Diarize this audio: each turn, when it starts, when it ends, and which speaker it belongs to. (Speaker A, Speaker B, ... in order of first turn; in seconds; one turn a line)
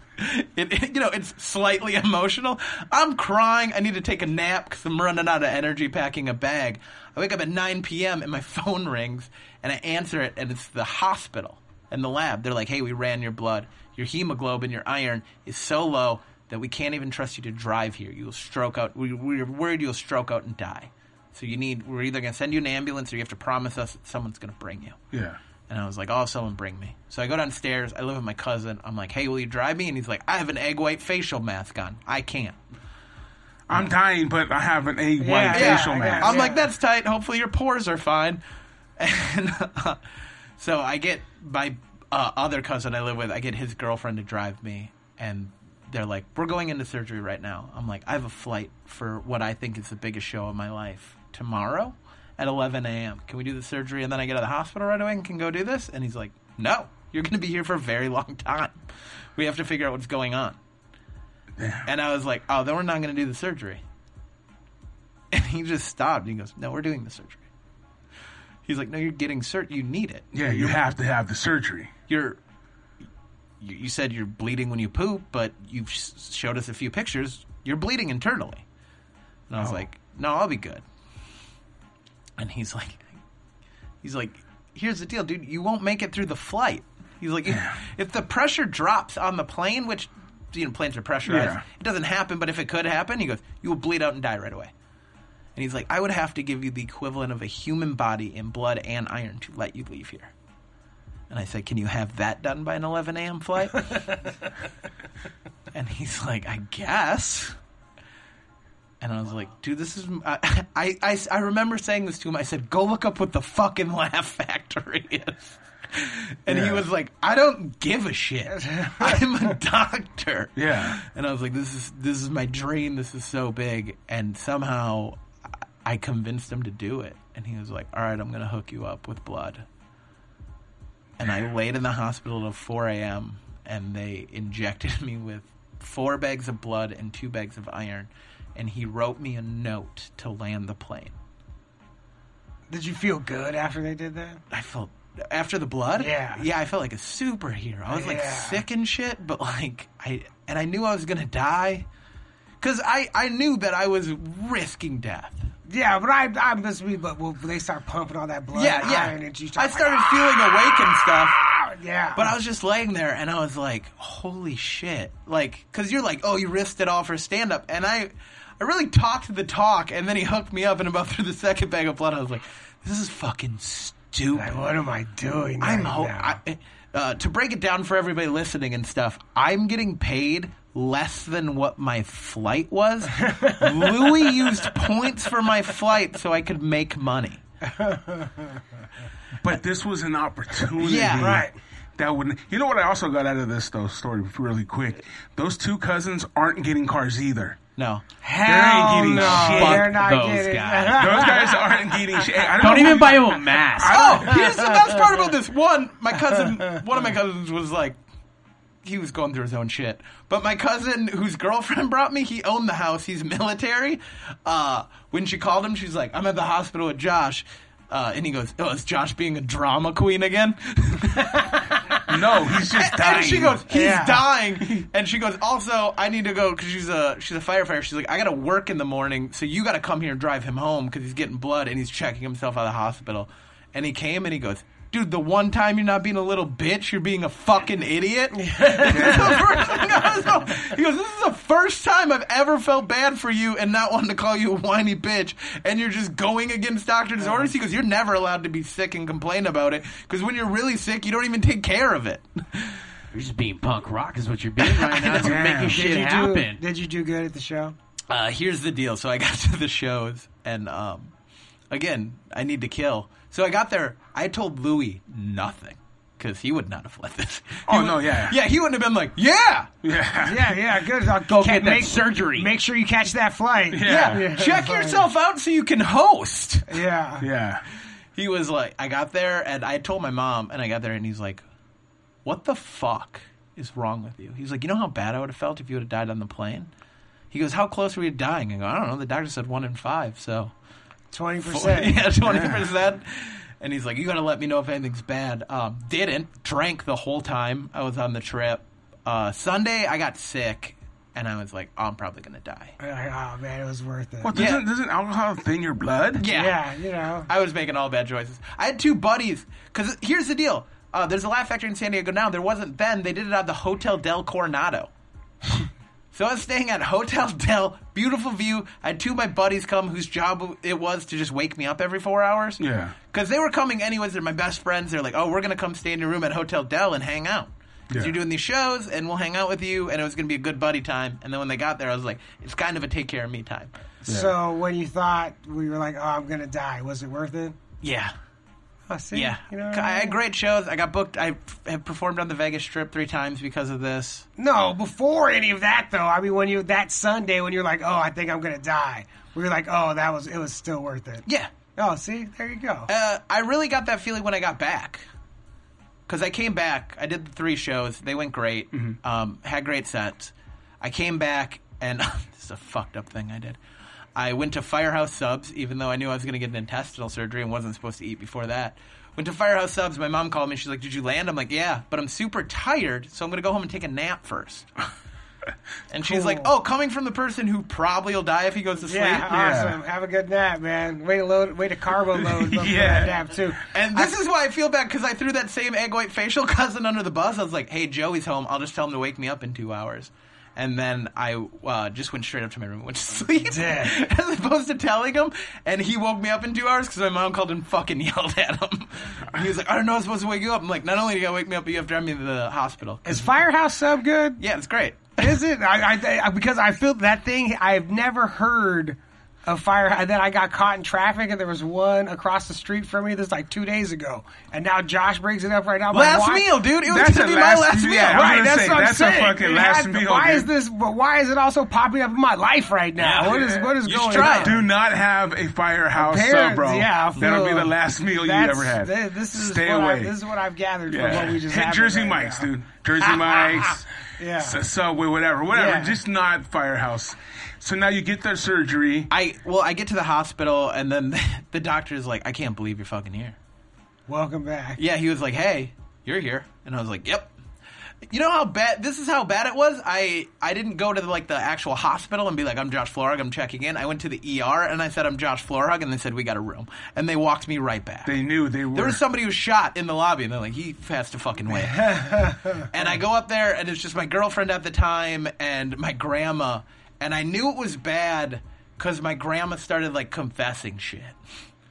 Speaker A: 0.2-25.0
Speaker B: 25.1-25.4
Speaker A: 25.7-32.6
Speaker B: 33.7-36.4
Speaker C: 35.2-36.7
Speaker A: 35.5-38.4
Speaker A: 39.0-40.0
Speaker A: 40.6-58.8
Speaker A: 59.4-60.6
Speaker B: 61.6-61.9
Speaker A: 61.9-63.8
Speaker A: 65.3-67.4
Speaker A: 68.7-70.8
Speaker B: 70.3-71.9
Speaker A: 72.1-72.4
Speaker A: 73.6-78.6
Speaker A: 79.5-80.8
Speaker A: 82.4-83.2
Speaker A: 84.0-94.7
Speaker B: 87.5-87.8
Speaker B: 91.2-91.6
Speaker A: 95.6-100.3
Speaker A: 101.3-104.0
Speaker A: 105.7-107.6
Speaker A: 109.0-125.2
Speaker B: 116.5-116.8
Speaker C: 118.5-119.2
Speaker B: 120.6-121.0
Speaker A: 125.8-129.7
Speaker A: 131.2-141.2
Speaker C: 142.7-144.4
Speaker A: 144.5-151.9
Speaker C: 146.0-146.4
Speaker C: 147.9-148.6
Speaker A: 152.6-155.5
Speaker C: 155.7-162.3
Speaker A: 158.5-161.4
Speaker A: 162.2-174.6
Speaker C: 174.3-176.4
Speaker A: 175.6-187.4
Speaker C: 183.2-184.2
Speaker C: 187.7-188.6
Speaker B: 189.4-197.6
Speaker A: 190.8-191.4
Speaker C: 191.2-191.5
Speaker A: 197.8-198.0
Speaker C: 198.2-202.9
Speaker B: 198.4-200.0
Speaker D: 199.1-201.3
Speaker B: 200.9-204.5
Speaker D: 202.6-204.2
Speaker A: 203.8-208.0
Speaker C: 204.3-204.7
Speaker A: 208.8-221.5
Speaker B: 222.1-223.6
Speaker A: 222.7-252.8
Speaker C: 223.7-224.3
Speaker C: 238.4-239.9
Speaker B: 238.9-239.6
Speaker D: 253.1-256.6
Speaker B: 255.1-255.9
Speaker C: 255.1-257.8
Speaker A: 258.1-261.1
Speaker A: 261.7-269.7
Speaker B: 267.7-268.4
Speaker B: 269.8-270.7
Speaker C: 270.2-275.1
Speaker D: 271.2-272.5
Speaker B: 273.7-274.3
Speaker A: 273.8-276.8
Speaker C: 276.7-277.3
Speaker B: 277.2-277.6
Speaker A: 278.2-281.4
Speaker A: 282.2-286.7
Speaker A: 287.3-290.5
Speaker C: 291.1-292.1
Speaker A: 291.4-302.8
Speaker B: 292.2-292.6
Speaker C: 302.8-304.4
Speaker B: 304.2-306.3
Speaker A: 304.3-304.6
Speaker A: 306.2-306.6
Speaker C: 306.3-307.3
Speaker A: 307.3-314.9
Speaker A: 316.1-333.7
Speaker B: 322.6-322.9
Speaker C: 334.0-337.6
Speaker B: 334.1-334.3
Speaker A: 337.8-338.1
Speaker C: 338.9-340.2
Speaker A: 339.1-344.3
Speaker C: 344.4-351.2
Speaker C: 351.8-352.9
Speaker A: 352.9-355.1
Speaker A: 356.1-363.6
Speaker A: 364.2-374.7
Speaker A: 375.9-379.3
Speaker C: 376.0-376.5
Speaker C: 378.9-383.6
Speaker B: 379.3-379.8
Speaker B: 382.1-383.2
Speaker A: 383.7-403.3
Speaker C: 393.5-394.0
Speaker C: 403.1-404.4
Speaker A: 404.4-405.4
Speaker C: 405.2-416.5
Speaker A: 415.9-418.4
Speaker B: 416.8-420.5
Speaker C: 418.1-424.6
Speaker A: 423.0-424.6
Speaker B: 423.2-430.1
Speaker C: 426.0-432.5
Speaker B: 430.9-433.9
Speaker C: 433.0-434.6
Speaker B: 434.4-439.1
Speaker C: 435.5-436.0
Speaker A: 439.1-443.4
Speaker C: 444.1-444.8
Speaker A: 444.8-447.3
Speaker A: 448.1-458.2
Speaker B: 458.1-459.0
Speaker A: 458.7-471.1
Speaker C: 461.5-462.6